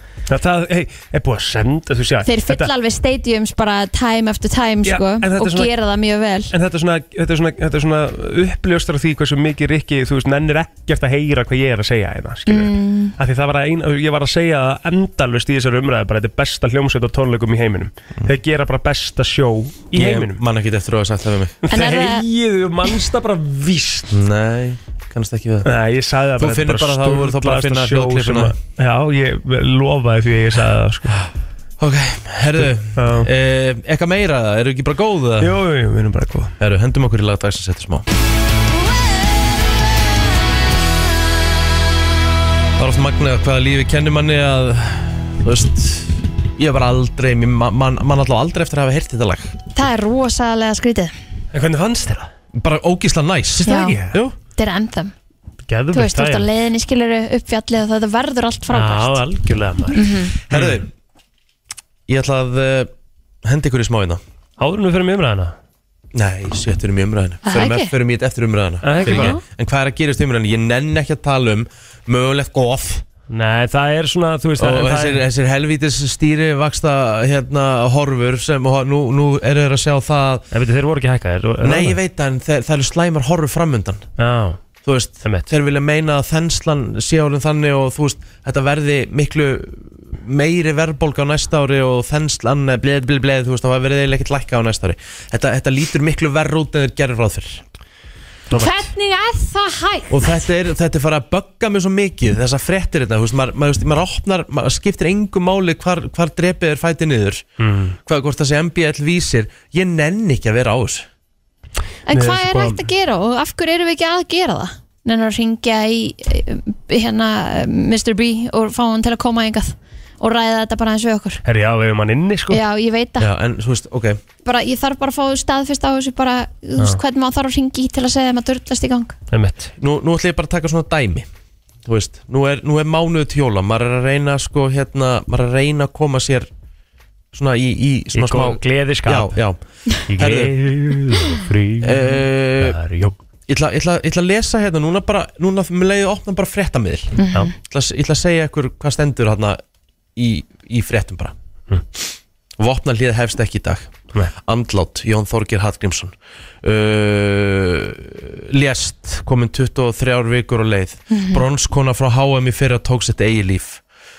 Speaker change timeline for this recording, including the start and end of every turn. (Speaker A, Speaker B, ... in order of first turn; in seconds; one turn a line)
Speaker A: 0.3-2.7
Speaker B: 2.2-6.5
Speaker A: 4.8-5.7
Speaker A: 6.5-20.4
Speaker B: 12.5-13.1
Speaker C: 19.9-21.6
Speaker A: 21.6-24.1
Speaker B: 21.7-22.2
Speaker C: 24.1-25.7
Speaker A: 25.6-31.2
Speaker C: 26.4-28.5
Speaker C: 31.8-35.5
Speaker A: 32.6-33.3
Speaker A: 35.4-36.5
Speaker C: 36.6-38.0
Speaker C: 42.8-49.6
Speaker B: 49.7-51.1
Speaker A: 51.5-52.3
Speaker C: 52.5-54.3
Speaker B: 53.6-54.0
Speaker A: 53.6-54.2
Speaker B: 54.5-55.1
Speaker A: 55.7-56.5
Speaker B: 55.9-59.2
Speaker A: 58.7-60.8
Speaker B: 59.9-60.3
Speaker C: 60.5-60.9
Speaker C: 62.1-62.9
Speaker C: 63.4-64.2
Speaker A: 64.6-65.5
Speaker C: 66.1-73.0
Speaker B: 67.4-67.9
Speaker A: 68.8-69.3
Speaker B: 69.0-69.4
Speaker A: 73.3-75.2
Speaker C: 74.6-80.5
Speaker A: 80.5-82.0
Speaker C: 81.6-84.0
Speaker A: 84.2-84.6
Speaker C: 84.8-97.6
Speaker A: 85.2-85.5
Speaker A: 98.5-98.9
Speaker B: 98.5-100.4
Speaker C: 100.1-107.4
Speaker A: 107.6-108.0
Speaker C: 108.0-111.1
Speaker B: 112.1-121.4
Speaker A: 112.1-112.9
Speaker A: 121.4-122.6
Speaker B: 122.5-123.3
Speaker C: 123.2-124.2
Speaker B: 124.4-129.1
Speaker A: 129.3-129.7
Speaker C: 129.8-131.3
Speaker C: 131.8-136.5
Speaker C: 137.3-141.0
Speaker A: 138.1-139.4
Speaker A: 140.1-143.2
Speaker C: 141.8-142.8
Speaker C: 143.5-149.6
Speaker B: 147.2-147.5
Speaker C: 150.2-151.3
Speaker C: 152.6-163.8
Speaker B: 161.1-161.4